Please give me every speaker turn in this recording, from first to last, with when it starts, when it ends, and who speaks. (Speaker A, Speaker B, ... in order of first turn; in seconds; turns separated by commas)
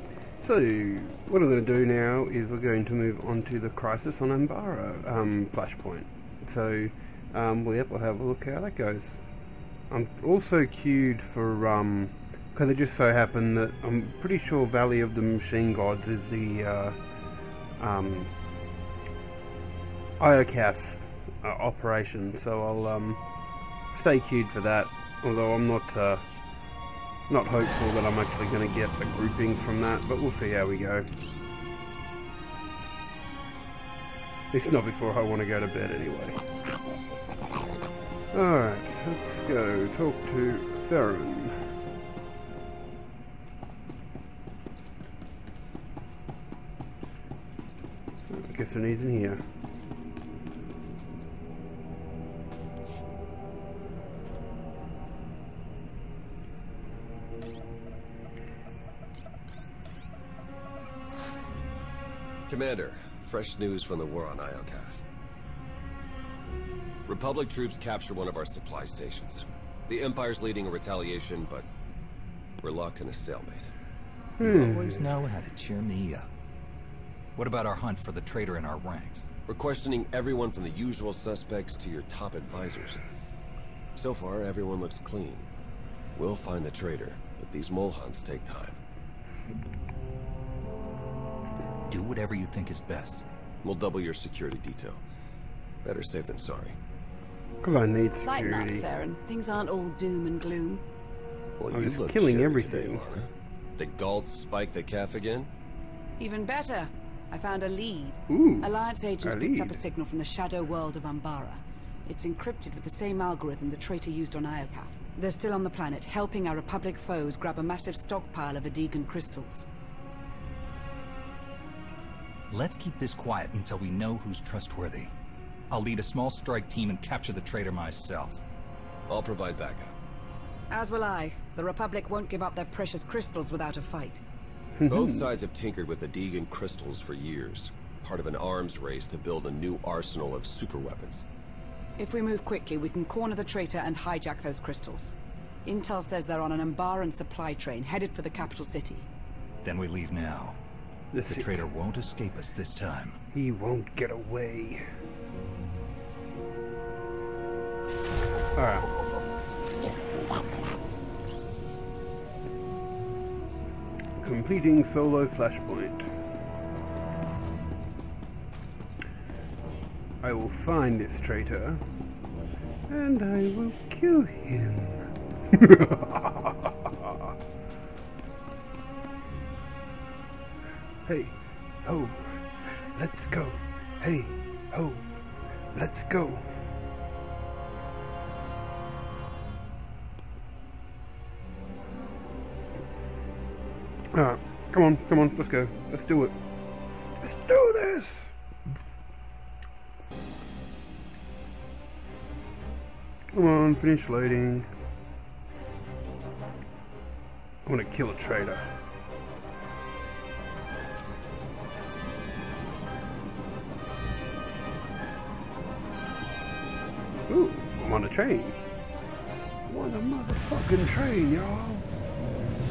Speaker A: 0.4-9.3, Speaker A: 9.9-17.0, Speaker A: 17.8-18.3, Speaker A: 20.2-23.2, Speaker A: 23.9-26.2, Speaker A: 27.3-31.1, Speaker A: 34.5-36.4, Speaker A: 38.3-41.6, Speaker A: 48.3-49.4, Speaker B: 62.5-65.0, Speaker B: 67.1-71.7, Speaker B: 72.6-73.7, Speaker A: 74.4-75.0, Speaker C: 74.4-76.3, Speaker C: 77.4-79.3, Speaker B: 79.5-83.0, Speaker B: 84.0-85.5, Speaker B: 86.2-88.8, Speaker C: 91.9-93.2, Speaker B: 93.6-95.0, Speaker B: 95.8-96.8, Speaker A: 97.6-98.8, Speaker D: 98.2-100.8, Speaker B: 101.6-105.5, Speaker A: 101.7-103.0, Speaker D: 106.2-119.7, Speaker A: 108.3-108.7, Speaker A: 109.2-109.8, Speaker C: 122.5-125.1, Speaker C: 125.7-128.4, Speaker B: 129.1-129.9, Speaker D: 130.7-134.2, Speaker A: 134.8-135.3, Speaker B: 134.9-141.2, Speaker D: 142.0-149.1, Speaker C: 149.6-150.6, Speaker A: 151.1-151.6, Speaker C: 151.3-153.2, Speaker A: 153.3-154.8, Speaker A: 158.6-158.9, Speaker A: 164.2-166.1, Speaker A: 170.2-171.8, Speaker A: 172.9-177.3, Speaker A: 181.1-185.0, Speaker A: 185.7-186.5, Speaker A: 194.1-196.3, Speaker A: 197.2-198.3, Speaker A: 203.3-204.7, Speaker A: 207.7-208.7, Speaker A: 217.3-218.6, Speaker A: 219.7-221.9